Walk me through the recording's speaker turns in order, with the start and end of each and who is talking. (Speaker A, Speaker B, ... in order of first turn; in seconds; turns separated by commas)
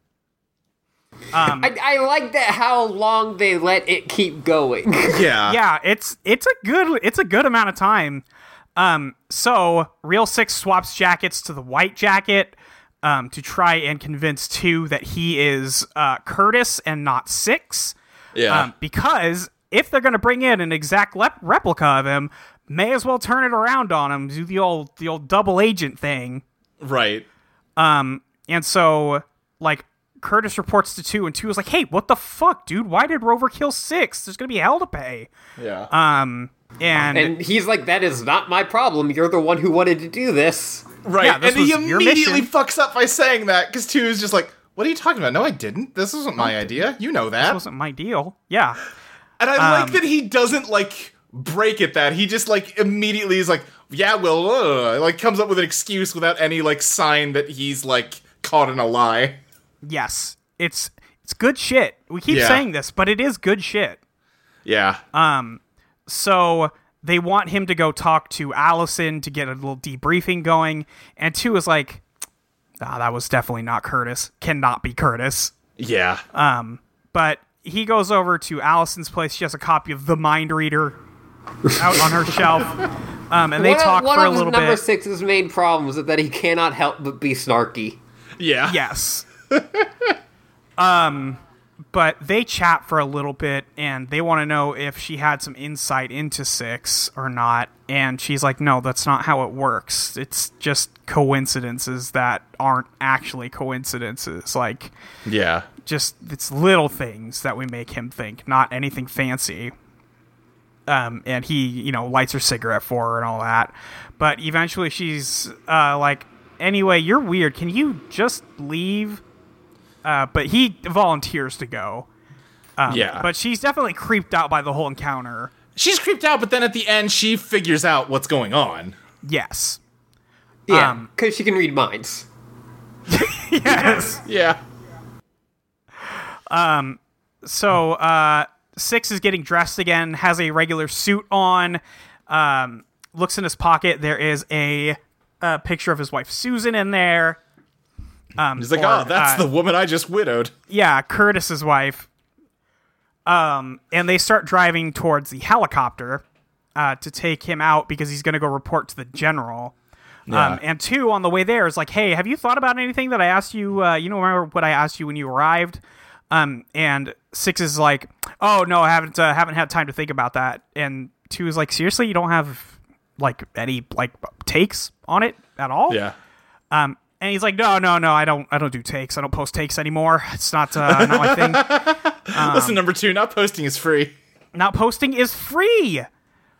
Speaker A: 1.3-1.7, Speaker B: 1.6-5.3, Speaker C: 5.1-5.6, Speaker A: 5.5-8.2, Speaker A: 8.8-17.9, Speaker C: 18.3-18.7, Speaker A: 18.5-26.4, Speaker C: 26.8-27.2, Speaker A: 27.8-35.3, Speaker C: 35.6-35.9, Speaker A: 35.9-37.3, Speaker B: 37.1-40.9, Speaker C: 41.0-47.6, Speaker A: 41.2-42.5, Speaker A: 46.4-46.7, Speaker A: 47.4-48.8, Speaker C: 49.4-59.4, Speaker A: 49.6-50.0, Speaker A: 59.8-64.0, Speaker C: 62.3-62.6, Speaker C: 64.6-65.0, Speaker A: 65.1-72.0, Speaker A: 72.8-75.5, Speaker C: 75.8-76.2, Speaker A: 76.3-81.0, Speaker A: 81.7-84.8, Speaker B: 83.6-88.0, Speaker C: 88.4-88.8, Speaker A: 88.7-89.3, Speaker C: 89.5-90.1, Speaker A: 90.8-91.4, Speaker A: 91.9-104.9, Speaker C: 105.2-105.7, Speaker A: 105.8-109.7, Speaker A: 110.9-119.2, Speaker A: 120.0-122.1, Speaker A: 122.8-125.5, Speaker C: 122.9-123.3, Speaker C: 125.8-128.9, Speaker A: 129.2-129.8, Speaker B: 130.7-132.3, Speaker A: 130.7-131.1, Speaker A: 133.1-134.2, Speaker C: 134.2-134.6, Speaker A: 136.5-147.4, Speaker A: 148.4-149.4, Speaker C: 148.6-150.5, Speaker A: 150.7-152.1, Speaker A: 153.2-156.2, Speaker A: 156.8-159.7, Speaker C: 160.3-160.6, Speaker A: 160.3-176.0, Speaker C: 175.9-176.1, Speaker A: 176.7-182.8, Speaker C: 180.8-184.1, Speaker A: 184.5-186.1